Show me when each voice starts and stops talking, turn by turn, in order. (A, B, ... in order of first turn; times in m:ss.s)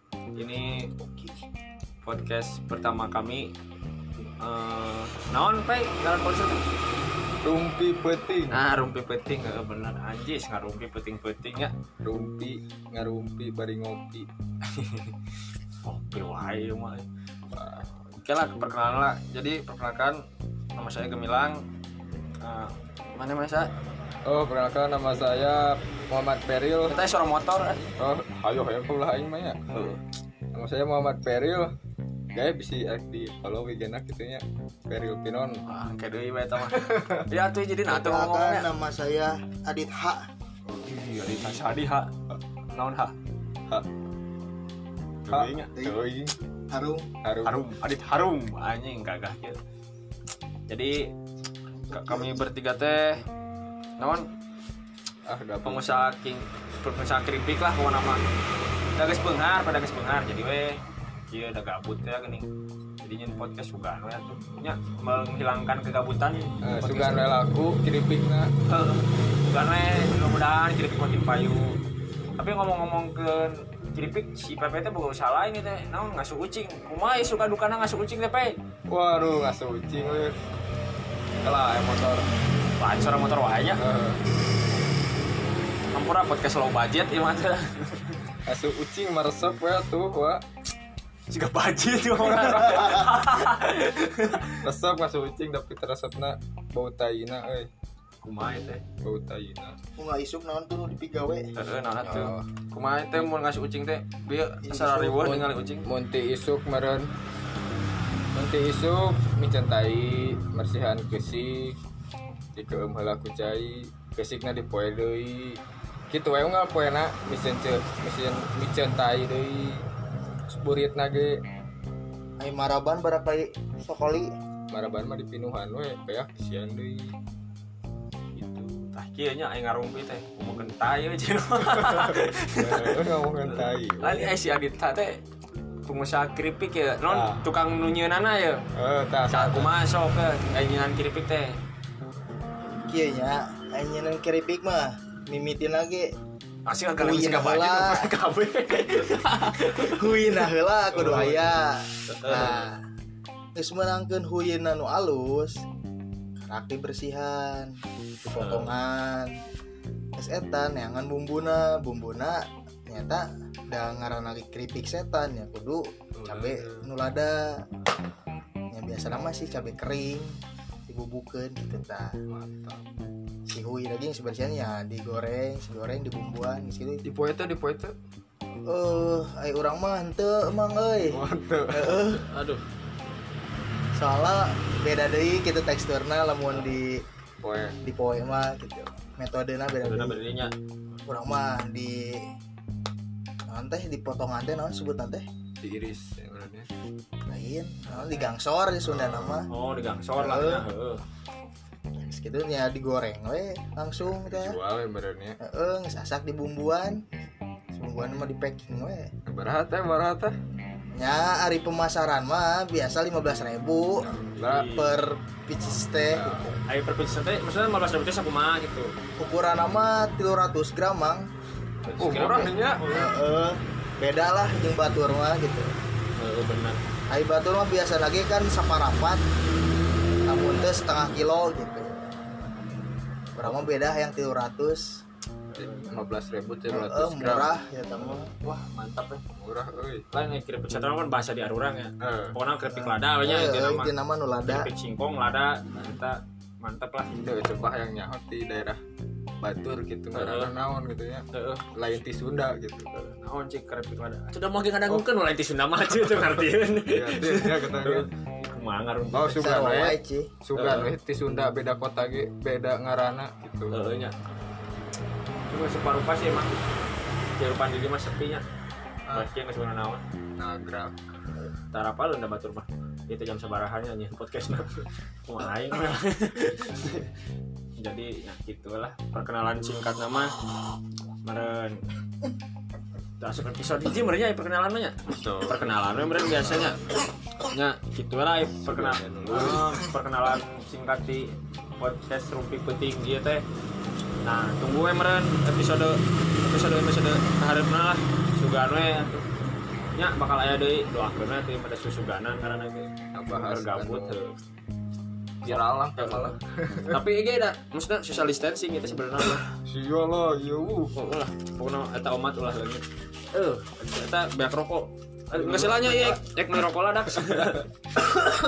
0:00.3-0:00.9 A
0:01.0-0:01.3 B
0:02.0-0:03.5 A
0:04.4-0:06.7 A
0:07.4-0:08.6 C
0:08.5-0:11.7 A
0:12.0-0:14.3 C
0:14.7-0:15.1 A
0:15.8-0:17.0 A
0:17.5-0:17.9 C
0:18.2-0:20.2 A
0:20.7-0:21.6 A
0:22.4-0:23.7 A
0:24.2-0:27.0 C
0:26.9-0:27.9 A
0:28.0-0:29.6 C
0:29.7-0:30.0 A
0:30.5-0:31.8 C
0:32.3-0:35.6 C
0:35.6-0:38.7 A
0:36.7-0:37.2 C
0:37.9-0:40.2 B
0:40.8-0:42.1 A
0:42.7-0:43.1 A
0:45.2-0:45.7 A
0:45.3-0:46.3 C
0:46.7-0:47.1 B
0:47.2-0:47.6 C
0:47.4-0:49.6 A
0:50.7-0:51.1 A
0:51.7-0:52.4 B
0:51.9-0:53.2 A
0:54.0-0:54.2 A
0:55.2-0:55.9 C
0:55.6-0:58.2 A
0:59.0-1:00.8 A
1:01.3-1:02.5 A
1:03.0-1:07.3 A
1:06.6-1:08.5 C
1:08.6-1:11.8 A
1:12.4-1:18.6 A
1:18.9-1:20.4 C
1:21.4-1:22.2 A
1:22.8-1:23.8 A
1:23.8-1:24.2 C
1:25.9-1:28.2 A
1:28.4-1:30.4 C
1:31.3-1:34.7 A
1:32.1-1:33.0 C
1:34.6-1:37.7 C
1:38.2-1:38.8 A
1:39.0-1:39.8 C
1:40.0-1:41.5 B
1:41.5-1:45.9 A
1:42.0-1:42.4 C
1:44.6-1:45.2 B
1:45.2-1:47.1 C
1:48.3-1:51.8 C
1:52.5-1:59.8 C
2:00.5-2:01.4 C
2:02.4-2:04.3 B
2:04.7-2:07.1 C
2:08.3-2:15.2 A
2:11.9-2:14.3 C
2:15.8-2:18.6 A
2:17.1-2:17.4 C
2:18.7-2:19.7 C
2:19.3-2:21.6 A
2:22.8-2:26.1 B
2:26.6-2:30.4 A
2:27.0-2:28.1 B
2:29.8-2:32.8 B
2:30.9-2:31.5 C
2:32.1-2:32.6 A
2:33.5-2:35.6 B
2:36.4-2:37.7 B
2:38.2-2:39.3 B
2:38.3-2:38.7 A
2:40.2-2:47.6 B
2:46.2-2:46.9 C
2:48.7-2:52.1 B
2:52.3-2:52.9 C
2:53.5-2:57.0 B
2:57.0-2:57.9 C
2:58.6-3:02.2 B
3:01.1-3:02.0 C
3:02.0-3:02.6 A
3:03.9-3:07.0 B
3:07.4-3:07.8 C
3:07.8-3:10.2 B
3:09.8-3:10.5 A
3:11.0-3:12.2 B
3:13.5-3:15.2 B
3:15.6-3:16.7 C
3:17.3-3:19.5 B
3:17.9-3:18.2 A
3:18.8-3:19.4 C
3:19.5-3:21.0 A
3:20.2-3:20.7 B
3:22.0-3:24.6 B
3:24.0-3:25.4 C
3:25.4-3:27.0 B
3:27.7-3:29.1 B
3:29.2-3:30.3 C
3:31.0-3:34.1 B
3:34.0-3:34.7 C
3:34.4-3:35.0 A
3:34.7-3:36.6 B
3:36.1-3:36.5 C
3:36.6-3:38.9 A
3:39.2-3:41.3 B
3:41.8-3:42.8 A
3:42.0-3:43.0 C
3:42.9-3:45.7 B
3:46.2-3:46.8 A
3:47.1-3:49.2 B
3:50.2-3:51.9 B
3:53.3-3:55.0 B
3:55.5-3:55.9 A
3:55.6-3:57.5 C
3:56.7-3:58.3 B
3:58.4-3:59.2 A
3:59.4-4:00.0 C
4:00.1-4:03.9 A
4:02.0-4:02.4 C
4:02.7-4:04.7 B
4:04.5-4:07.1 A
4:07.1-4:08.8 C
4:09.4-4:12.9 C
4:10.1-4:10.5 A
4:11.3-4:11.7 A
4:12.9-4:19.4 A
4:16.8-4:18.1 C
4:19.1-4:23.8 C
4:19.2-4:20.4 B
4:20.6-4:20.9 A
4:23.7-4:24.1 A
4:25.5-4:26.6 A
4:27.4-4:28.4 A
4:29.1-4:30.0 A
4:30.4-4:30.9 C
4:31.4-4:37.1 A
4:37.8-4:40.3 A
4:41.2-4:41.8 A
4:43.2-4:46.8 A
4:45.1-4:46.6 C
4:47.4-4:53.4 A
4:48.6-4:49.8 C
4:54.2-4:59.2 A
5:00.0-5:04.4 A
5:03.1-5:04.2 C
5:05.4-5:07.0 C
5:05.4-5:09.5 A
5:09.6-5:10.9 C
5:10.9-5:17.7 A
5:15.3-5:16.2 C